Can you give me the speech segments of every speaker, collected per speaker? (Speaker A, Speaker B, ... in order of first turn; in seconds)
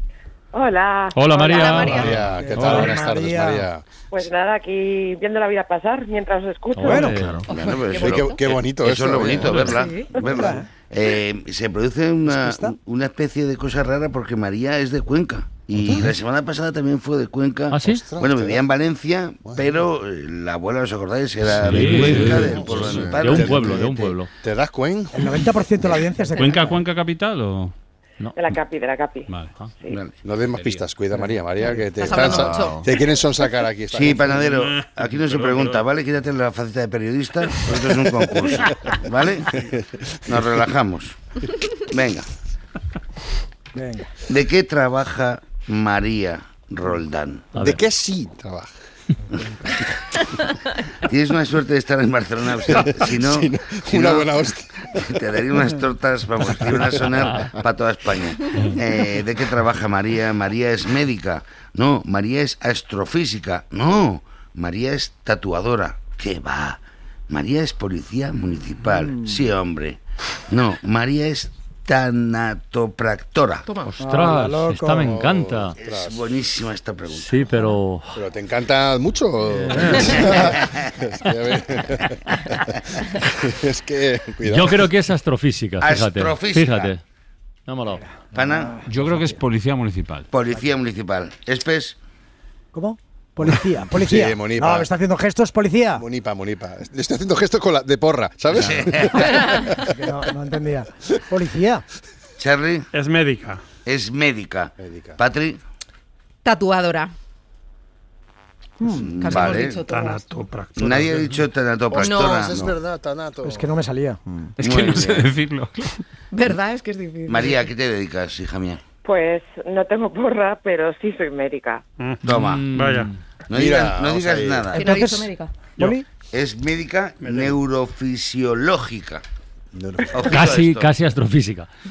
Speaker A: 0.5-1.9, 4.1-7.2, 28.4-30.0, 119.0-121.8
Speaker B: 1.1-3.0, 6.8-7.5, 9.5-9.7, 17.7-18.1, 21.6-24.3, 47.5-47.8, 73.9-75.8, 77.1-78.2, 79.5-80.5, 84.5-87.0, 87.7-88.2, 122.2-123.2, 130.3-131.7
Speaker C: 1.3-2.1, 9.7-10.1, 32.0-32.9, 73.7-74.0, 106.5-107.1, 109.0-110.4, 112.0-112.5, 116.3-117.7, 124.8-125.5
Speaker D: 1.9-3.8, 8.0-9.7, 17.8-18.7, 21.8-26.2, 30.2-34.5, 47.6-48.7, 52.7-55.0, 56.6-57.1, 74.9-76.2, 78.2-84.9, 94.0-94.9, 96.0-99.7, 104.8-105.2, 111.9-113.6, 123.5-124.7, 129.8-130.3
Speaker E: 2.3-3.7, 6.8-7.2, 10.2-10.7, 12.3-12.8, 25.1-26.8, 43.7-44.1, 74.0-75.1, 88.3-89.4, 92.7-96.0, 99.9-101.8, 108.8-109.1, 113.5-114.5, 124.8-126.0
Speaker F: 7.4-23.7, 29.9-30.2, 33.9-39.5, 40.3-41.2, 41.8-42.3, 44.3-47.5, 51.0-54.4, 55.0-73.7, 75.8-77.5, 80.0-80.9, 85.8-86.9, 88.3-88.8, 90.3-92.0, 98.5-99.6, 102.4-102.9, 103.8-105.6, 109.0-109.8, 110.8-112.8, 114.6-115.3, 117.3-118.8, 122.2-122.7, 123.5-124.9, 126.3-129.2, 130.1-130.9
Speaker G: 21.9-22.3, 26.4-27.7, 29.3-29.6, 30.5-30.9, 34.7-35.8, 88.8-90.3, 114.6-115.9
Speaker H: 102.9-103.6, 109.4-111.4, 122.7-123.1, 127.2-127.5